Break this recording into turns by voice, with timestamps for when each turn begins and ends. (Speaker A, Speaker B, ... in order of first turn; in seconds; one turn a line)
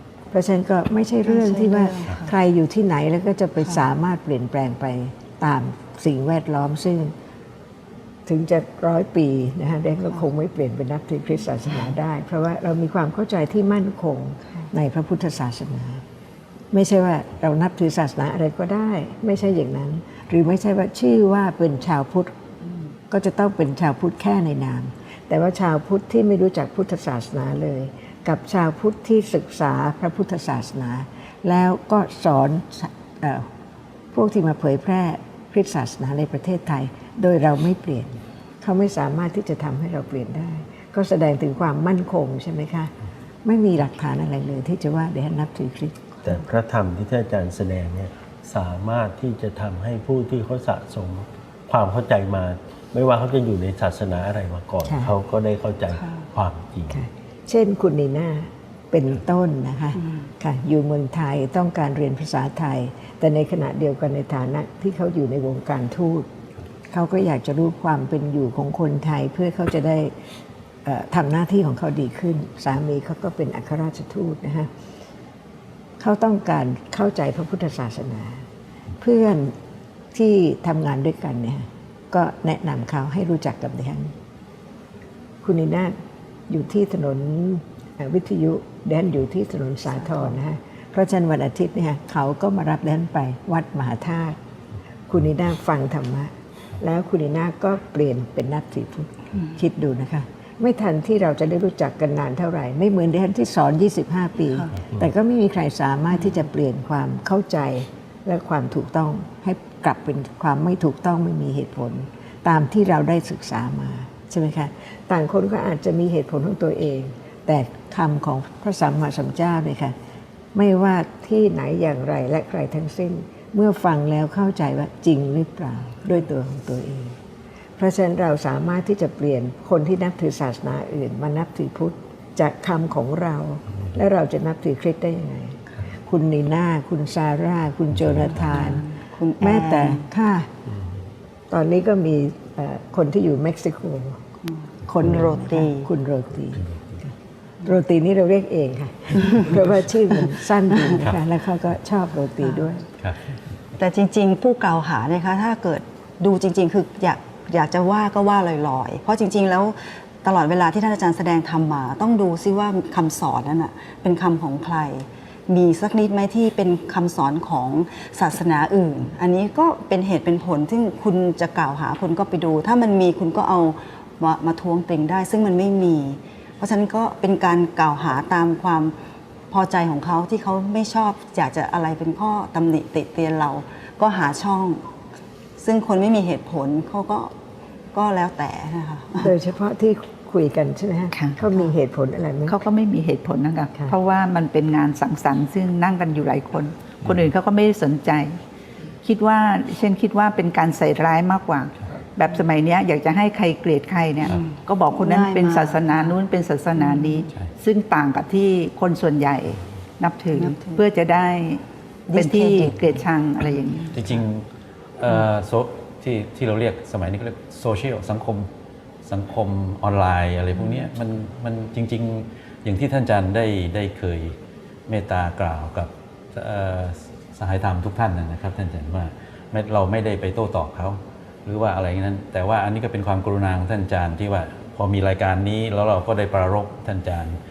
Speaker A: 0.3-7.1
Speaker B: 1.2-2.3
Speaker A: 8.3-16.0
Speaker A: 16.7-22.3
Speaker A: 23.1-33.5
Speaker A: 34.1-42.9
Speaker A: 43.4-46.0
Speaker C: 46.2-57.0
Speaker A: 54.9-55.1
Speaker A: 56.9-66.3
Speaker A: 66.9-70.1
Speaker A: 70.8-74.7
Speaker A: 76.0-78.5
Speaker A: 79.0-79.5
Speaker A: 80.1-84.1
Speaker A: 85.4-86.0
Speaker A: 86.5-94.4
Speaker A: 95.1-120.0
Speaker A: 120.5-127.2
Speaker A: 127.8-138.8
Speaker B: 138.5-140.0
Speaker A: 139.4-140.5
Speaker A: 141.5-144.2
Speaker A: 144.9-147.1
Speaker B: 145.0-145.9
Speaker A: 147.7-152.9
Speaker B: 153.8-178.9
Speaker B: 179.5-184.8
Speaker B: 185.6-187.3
Speaker B: 187.9-189.3
Speaker A: 189.2-192.6
Speaker D: 192.5-198.4
Speaker D: 199.0-214.0
Speaker B: 204.9-206.1
Speaker B: 206.8-207.2
Speaker B: 210.4-210.8
Speaker B: 212.1-212.8
Speaker E: 213.9-214.4
Speaker E: 215.0-218.5
Speaker E: 219.0-224.4
Speaker E: 224.9-237.4